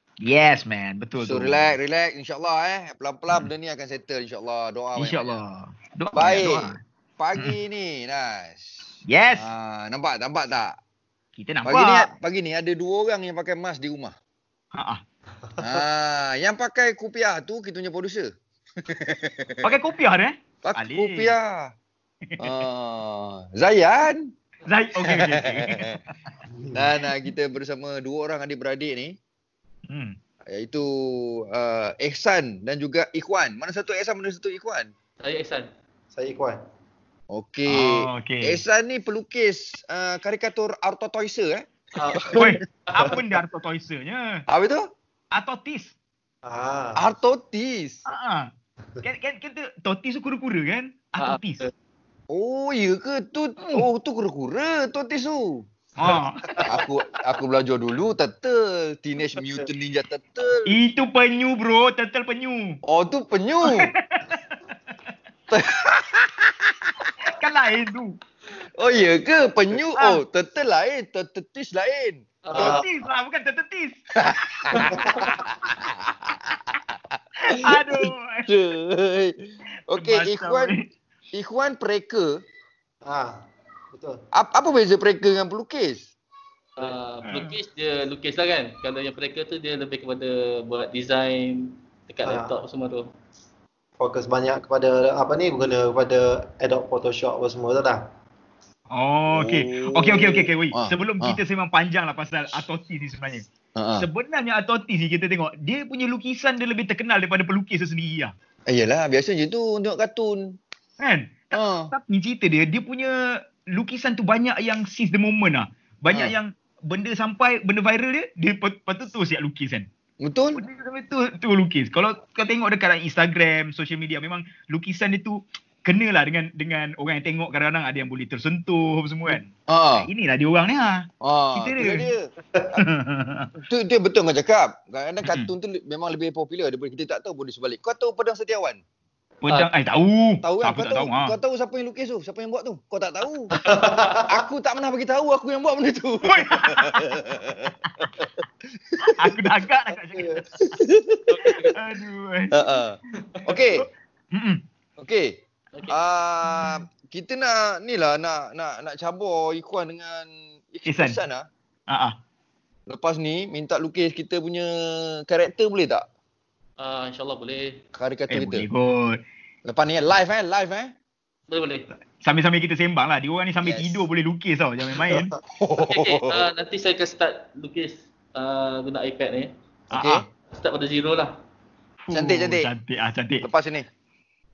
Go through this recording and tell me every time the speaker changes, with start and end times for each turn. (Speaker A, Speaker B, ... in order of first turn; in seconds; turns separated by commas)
Speaker A: 0.2-1.7, Speaker B: 1.2-5.4, Speaker A: 5.0-6.8, Speaker B: 6.1-8.7, Speaker A: 9.1-9.5, Speaker B: 9.3-10.7, Speaker A: 11.4-12.1, Speaker B: 11.7-14.2, Speaker A: 14.8-15.0, Speaker B: 15.6-18.3, Speaker B: 18.8-19.6, Speaker A: 19.6-21.3, Speaker B: 20.6-21.7, Speaker A: 22.3-22.6, Speaker B: 22.4-24.3, Speaker A: 24.7-26.1, Speaker B: 25.1-26.0, Speaker C: 26.5-26.9, Speaker B: 26.7-29.1, Speaker A: 29.9-30.1, Speaker B: 30.5-34.9, Speaker D: 35.2-35.7, Speaker C: 36.1-36.6, Speaker B: 37.3-41.6, Speaker A: 37.7-38.6, Speaker C: 42.0-43.2, Speaker B: 42.2-42.5, Speaker A: 42.3-44.4, Speaker B: 44.5-44.8, Speaker A: 45.3-45.9, Speaker C: 46.4-47.1, Speaker B: 47.0-48.0, Speaker A: 48.1-48.5, Speaker A: 49.0-51.6, Speaker D: 51.2-51.7, Speaker B: 52.3-55.6, Speaker A: 56.0-56.4, Speaker B: 56.6-60.7, Speaker A: 60.7-62.8, Speaker B: 62.9-63.9, Speaker A: 63.7-64.5, Speaker B: 65.5-66.7, Speaker A: 67.3-68.2, Speaker B: 68.7-72.8, Speaker D: 72.4-72.8, Speaker A: 72.6-74.0, Speaker B: 74.2-79.4, Speaker C: 74.8-75.4, Speaker A: 77.4-78.5, Speaker B: 79.9-80.8, Speaker A: 80.0-80.9, Speaker B: 81.3-82.4, Speaker C: 83.0-83.3, Speaker C: 83.9-84.2, Speaker B: 84.3-86.1, Speaker D: 86.8-93.1, Speaker A: 87.2-87.5, Speaker C: 92.2-92.6, Speaker C: 94.0-98.0, Speaker A: 98.9-103.4, Speaker B: 99.3-101.4, Speaker B: 103.8-104.1, Speaker A: 104.0-108.3, Speaker B: 108.7-110.6, Speaker A: 111.0-119.9, Speaker B: 111.5-111.9, Speaker B: 120.2-120.6, Speaker A: 120.6-132.1, Speaker B: 129.3-130.1, Speaker B: 131.2-132.2, Speaker A: 132.8-133.5, Speaker B: 133.6-138.8, Speaker A: 139.4-141.3, Speaker B: 140.4-143.5, Speaker C: 143.6-144.4, Speaker B: 144.3-148.3, Speaker A: 146.3-147.1, Speaker B: 149.0-149.3, Speaker A: 149.2-150.7, Speaker B: 150.7-151.6, Speaker D: 151.3-151.7, Speaker A: 151.7-152.6, Speaker B: 152.5-153.9, Speaker A: 153.8-154.6, Speaker B: 155.0-155.3, Speaker D: 155.7-156.0, Speaker B: 155.9-161.5, Speaker A: 156.5-156.8, Speaker A: 160.9-161.2, Speaker A: 161.9-162.2, Speaker B: 162.9-166.1, Speaker D: 166.8-167.8, Speaker B: 167.9-168.7, Speaker A: 168.3-169.2, Speaker B: 169.7-170.9, Speaker D: 171.5-171.9, Speaker A: 172.2-175.3, Speaker B: 173.6-174.1, Speaker B: 175.5-176.5, Speaker D: 175.8-179.5, Speaker B: 179.9-180.3, Speaker A: 179.9-180.2, Speaker D: 180.5-181.3, Speaker A: 182.0-183.4, Speaker B: 182.1-182.7, Speaker B: 183.4-183.9